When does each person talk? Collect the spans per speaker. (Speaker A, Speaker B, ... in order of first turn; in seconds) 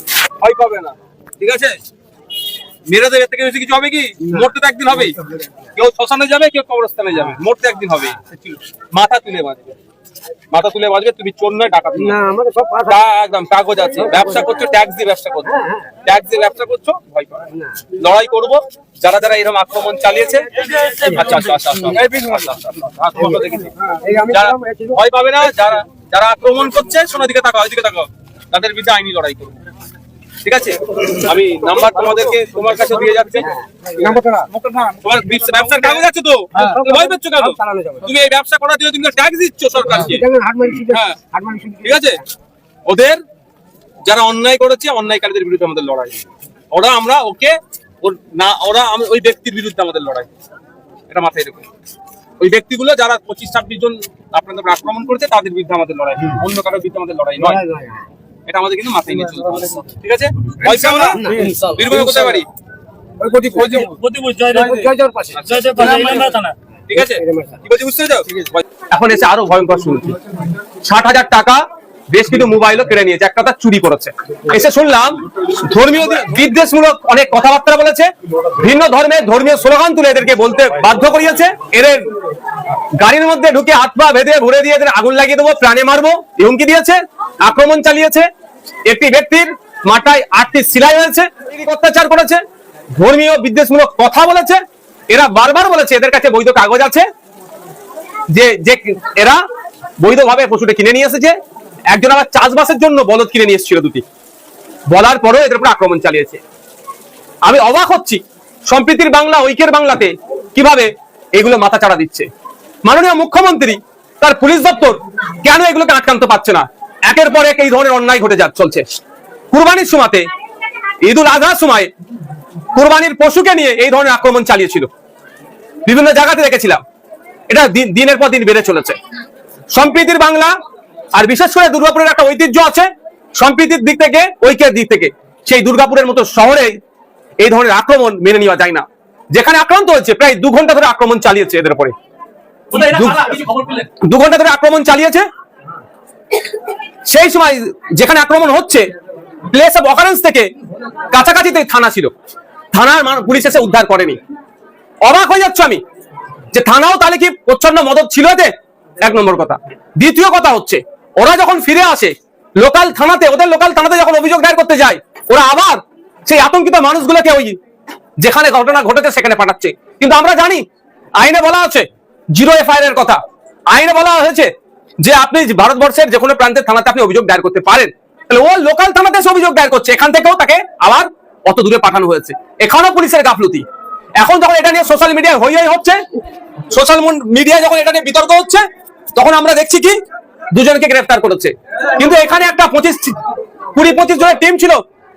Speaker A: 0.4-1.8, 2.9-5.2, 5.8-9.8, 10.5-12.2, 12.9-23.8, 24.3-29.6, 30.4-40.2, 40.9-41.2, 41.8-42.2, 42.9-43.2, 44.1-46.2, 46.7-50.3, 51.1-51.7, 52.4-57.6, 58.5-62.5, 63.5-63.9, 65.3-66.3, 66.9-70.2, 70.8-82.1, 83.0-88.3, 88.9-92.4, 93.0-97.1, 98.3-99.4, 100.0-101.4, 101.9-104.0, 104.9-106.4, 107.5-112.3, 112.8-118.8, 119.5-120.3, 121.0-121.9, 122.7-124.9, 125.9-126.8, 127.5-129.0, 129.7-130.6, 131.1-136.8, 137.4-141.9, 142.7-145.3, 147.1-148.9, 149.5-150.5, 151.1-152.1, 152.7-154.2, 155.0-155.8, 156.5-158.5, 159.0-167.6, 168.2-170.7, 171.2-173.2, 173.7-174.5, 175.0-183.7, 184.2-186.0, 186.7-190.0, 190.5-193.2, 193.7-194.8
Speaker B: 4.2-4.5, 5.1-5.5, 12.0-13.0, 14.1-14.4, 15.5-15.9, 17.6-17.8, 23.1-25.0, 33.4-34.5, 36.5-38.1, 39.9-42.2, 57.4-58.1, 59.3-59.8, 61.1-62.1, 63.2-63.9, 64.5-65.4, 67.0-67.6
Speaker C: 20.6-21.1, 61.1-61.6, 63.3-64.9, 65.4-66.6, 142.8-143.9